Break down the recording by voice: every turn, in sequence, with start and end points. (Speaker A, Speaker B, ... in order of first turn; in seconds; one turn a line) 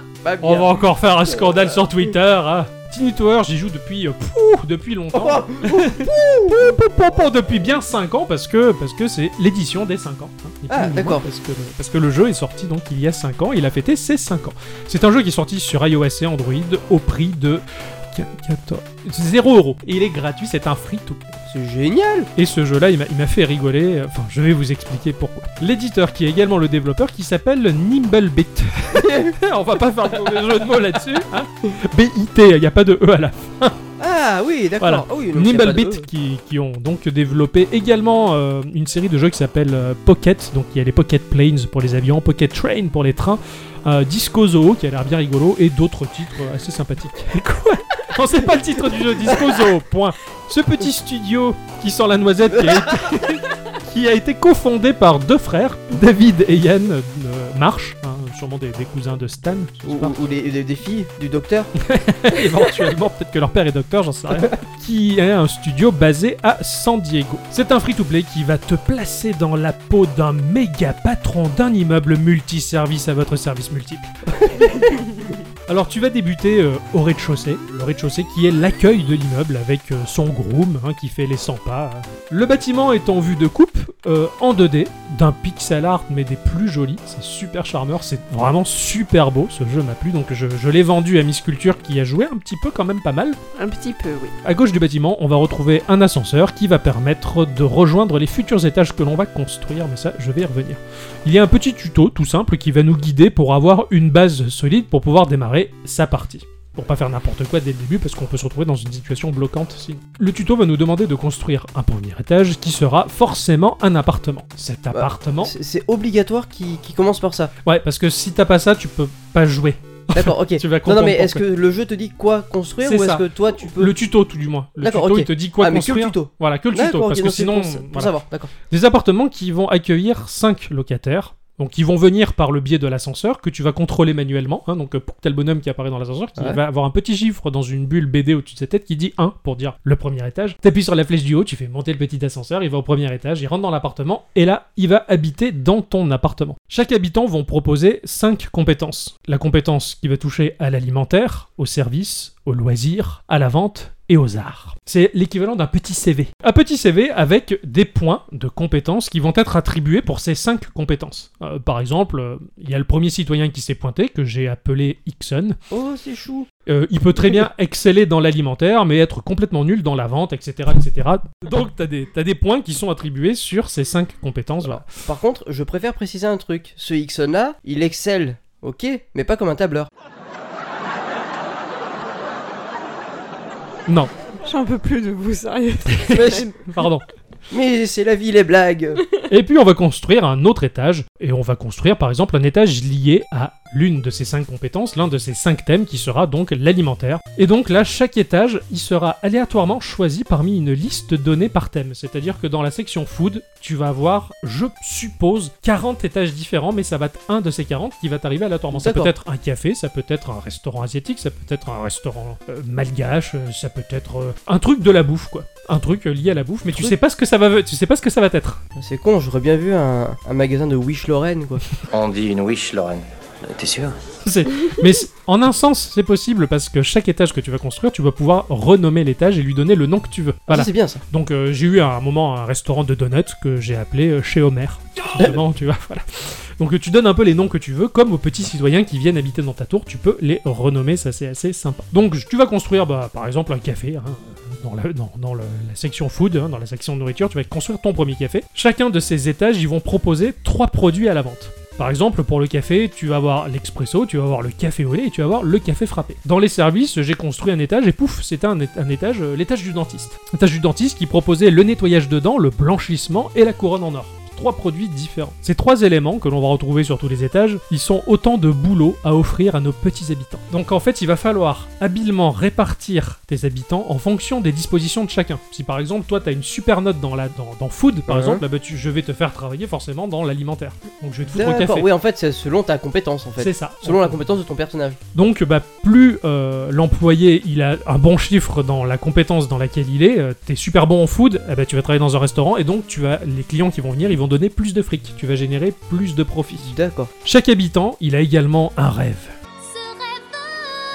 Speaker A: 0.2-0.7
Speaker B: 0.4-21.4
Speaker A: 5.1-6.7
Speaker A: 10.7-11.2
Speaker A: 21.5-22.3
Speaker B: 22.4-33.8
Speaker A: 28.9-29.4
Speaker A: 34.0-36.1
Speaker B: 34.8-60.2
Speaker A: 59.9-61.7
Speaker B: 61.8-74.1
Speaker A: 74.3-75.0
Speaker B: 75.7-93.4
Speaker C: 93.6-94.3
Speaker B: 94.4-115.5
Speaker A: 114.9-117.5
Speaker B: 117.6-121.4
Speaker A: 120.1-124.0
Speaker B: 122.8-128.1
Speaker A: 124.8-128.5
Speaker B: 128.7-165.6
Speaker A: 165.7-166.5
Speaker B: 166.7-174.9
Speaker A: 174.6-179.9
Speaker B: 183.9-184.1
Speaker C: 184.4-186.5
Speaker B: 185.9-187.1
Speaker A: 186.1-186.5
Speaker A: 187.5-189.0
Speaker B: 189.3-218.6
Speaker A: 208.7-209.1
Speaker A: 218.8-221.7
Speaker D: 221.9-224.0
Speaker B: 224.2-281.9
Speaker A: 230.5-231.0
Speaker A: 278.1-278.4
Speaker A: 281.3-285.0
Speaker B: 283.4-284.2
Speaker B: 285.1-299.3
Speaker A: 296.5-297.1